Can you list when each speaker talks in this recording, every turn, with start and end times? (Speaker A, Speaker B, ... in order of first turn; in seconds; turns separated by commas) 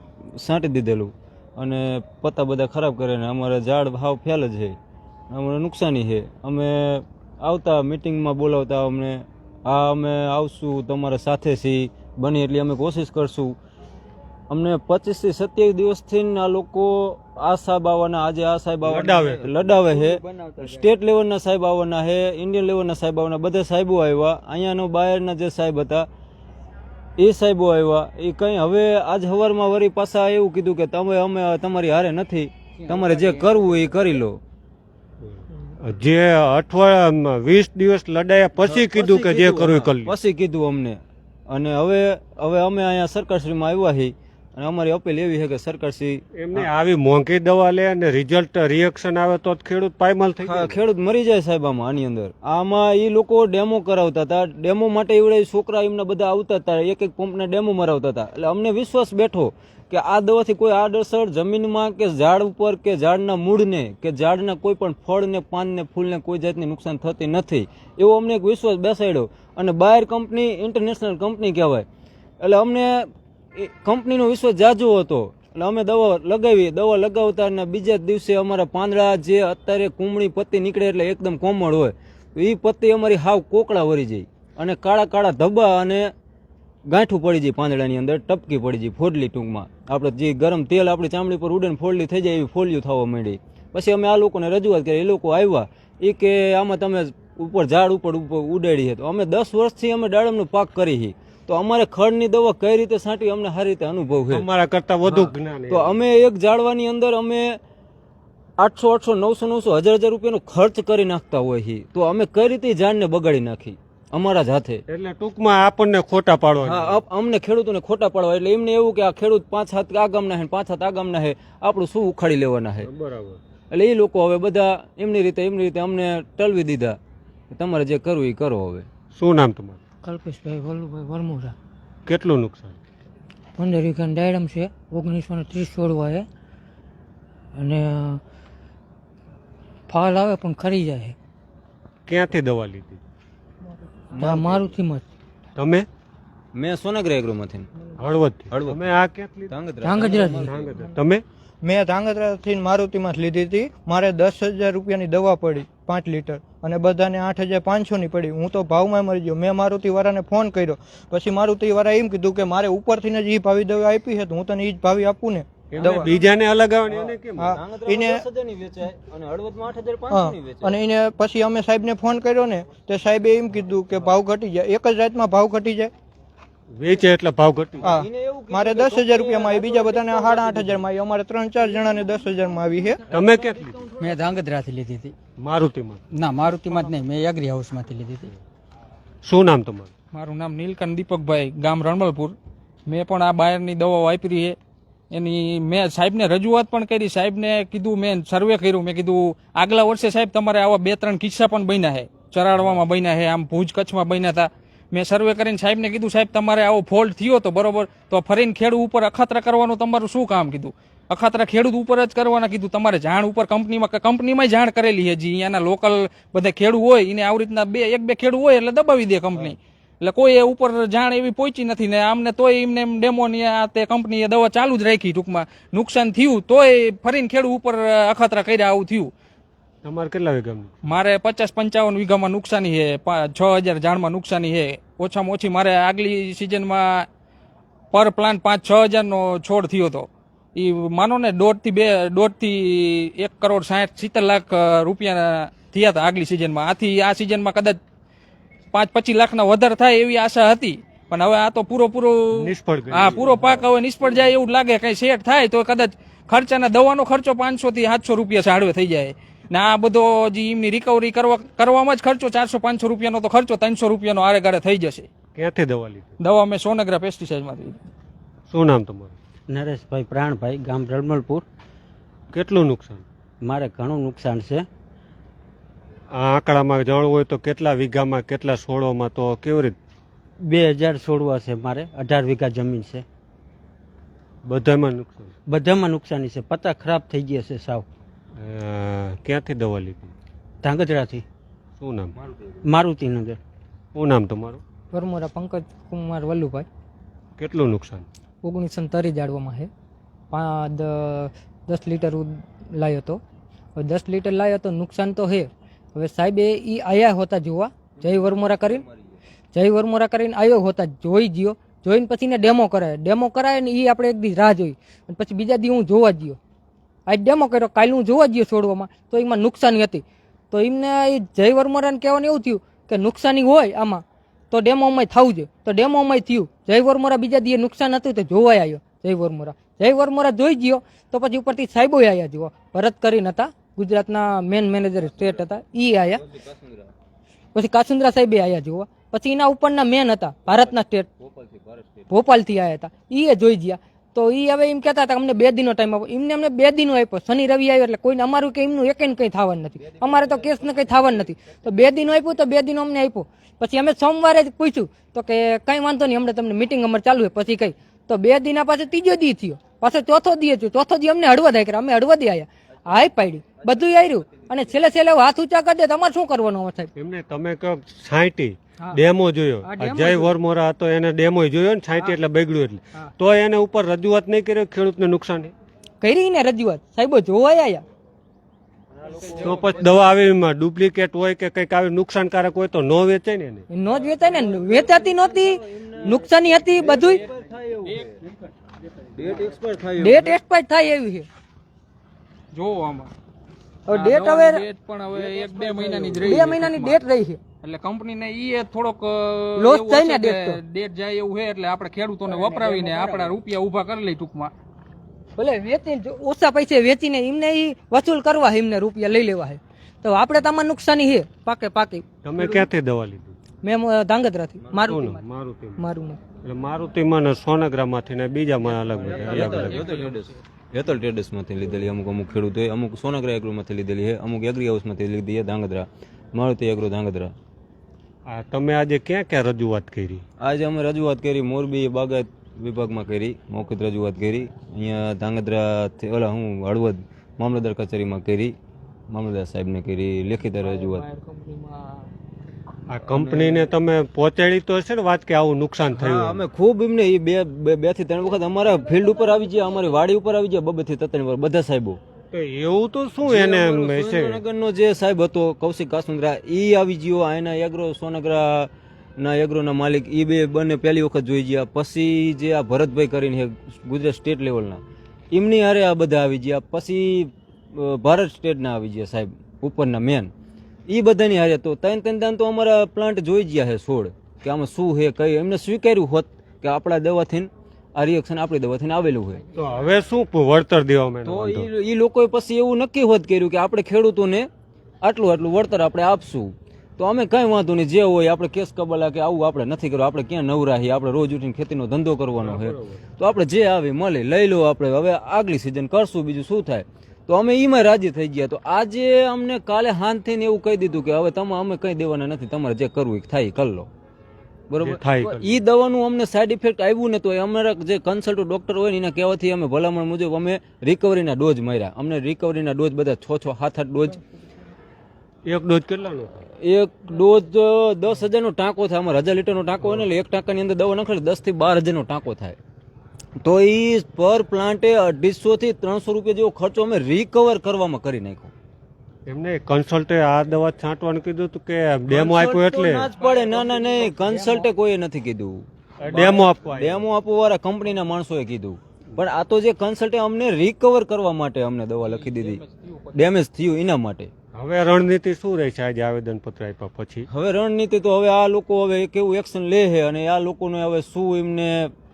Speaker A: 0.4-4.8, Speaker A: 5.3-13.6, Speaker A: 14.5-26.1, Speaker B: 18.8-19.6, Speaker A: 27.2-34.4, Speaker B: 35.2-40.1, Speaker A: 38.6-46.7, Speaker B: 46.3-50.8, Speaker A: 50.4-71.8, Speaker A: 72.4-86.1, Speaker A: 86.9-104.5, Speaker B: 104.3-106.0, Speaker A: 105.0-107.6, Speaker A: 108.6-114.8, Speaker B: 114.9-117.0, Speaker A: 116.6-122.9, Speaker B: 122.8-123.4, Speaker A: 123.7-127.0, Speaker A: 127.5-128.9, Speaker B: 129.1-129.8, Speaker C: 130.1-131.5, Speaker B: 132.1-132.8, Speaker C: 133.6-136.2, Speaker C: 137.6-138.1, Speaker C: 139.9-141.1, Speaker B: 142.1-143.0, Speaker C: 144.1-145.0, Speaker A: 144.2-144.6, Speaker B: 145.6-145.9, Speaker A: 146.5-147.7, Speaker B: 148.0-149.5, Speaker A: 148.5-148.8, Speaker A: 149.5-150.6, Speaker C: 149.8-150.8, Speaker B: 150.4-151.2, Speaker D: 151.6-166.1, Speaker B: 165.7-167.6, Speaker A: 166.8-170.8, Speaker D: 167.3-168.2, Speaker D: 170.1-175.9, Speaker B: 176.7-177.9, Speaker A: 177.8-180.8, Speaker D: 177.8-183.0, Speaker B: 183.1-183.8, Speaker A: 183.1-184.1, Speaker E: 183.9-185.1, Speaker B: 185.4-186.0, Speaker E: 186.1-188.3, Speaker B: 189.2-189.9, Speaker F: 190.1-192.3, Speaker F: 192.9-194.6, Speaker F: 195.1-229.1, Speaker B: 229.8-230.9, Speaker F: 230.9-237.1, Speaker F: 237.9-247.8, Speaker F: 248.7-265.1, Speaker B: 252.3-253.3, Speaker B: 265.3-266.1, Speaker F: 266.2-267.8, Speaker B: 268.5-269.1, Speaker G: 269.5-271.4, Speaker B: 272.3-273.0, Speaker G: 273.4-274.7, Speaker B: 276.1-279.8, Speaker G: 280.4-283.0, Speaker B: 284.4-285.3, Speaker G: 285.4-287.9, Speaker B: 288.4-290.1, Speaker G: 290.6-291.2, Speaker B: 291.8-292.1, Speaker G: 292.6-293.4, Speaker B: 293.9-294.6, Speaker C: 294.9-296.7, Speaker B: 297.4-298.1, Speaker C: 298.4-299.7, Speaker C: 300.3-303.2, Speaker C: 303.7-308.8, Speaker A: 308.0-309.1, Speaker C: 309.5-316.4, Speaker C: 317.1-336.2, Speaker A: 335.0-335.6, Speaker A: 336.1-336.9, Speaker C: 337.5-341.1, Speaker A: 340.5-342.1, Speaker C: 342.1-366.9, Speaker A: 349.8-352.3, Speaker A: 364.2-364.6, Speaker B: 366.9-375.5, Speaker C: 369.6-370.3, Speaker C: 376.0-377.8, Speaker A: 379.0-380.0, Speaker B: 379.3-383.6, Speaker C: 383.7-387.2, Speaker A: 384.0-388.2, Speaker A: 389.1-390.3, Speaker C: 390.0-391.3, Speaker F: 392.5-393.1, Speaker C: 393.9-394.6, Speaker F: 393.9-397.0, Speaker A: 395.1-396.4, Speaker C: 396.2-397.4, Speaker F: 397.6-404.5, Speaker C: 399.6-400.6, Speaker C: 402.2-403.4, Speaker C: 405.4-412.6, Speaker B: 412.2-413.4, Speaker C: 413.6-415.2, Speaker B: 414.9-415.8, Speaker C: 415.8-416.2, Speaker B: 416.4-419.9, Speaker A: 418.9-427.3, Speaker F: 419.6-420.2, Speaker B: 428.3-430.2, Speaker A: 430.4-438.5, Speaker A: 439.1-441.1, Speaker B: 442.9-446.4, Speaker A: 443.0-443.7, Speaker A: 445.9-452.0, Speaker B: 452.3-454.4, Speaker A: 453.2-470.3, Speaker A: 470.9-479.4, Speaker B: 479.5-481.7, Speaker A: 481.2-484.5, Speaker A: 485.0-503.9, Speaker B: 492.4-492.9, Speaker A: 504.7-514.2, Speaker B: 504.8-505.6, Speaker B: 515.4-516.3, Speaker A: 516.6-522.6, Speaker A: 523.4-528.5, Speaker B: 529.3-533.2, Speaker A: 532.1-544.3, Speaker B: 536.0-537.1, Speaker B: 544.5-547.3, Speaker A: 547.3-551.9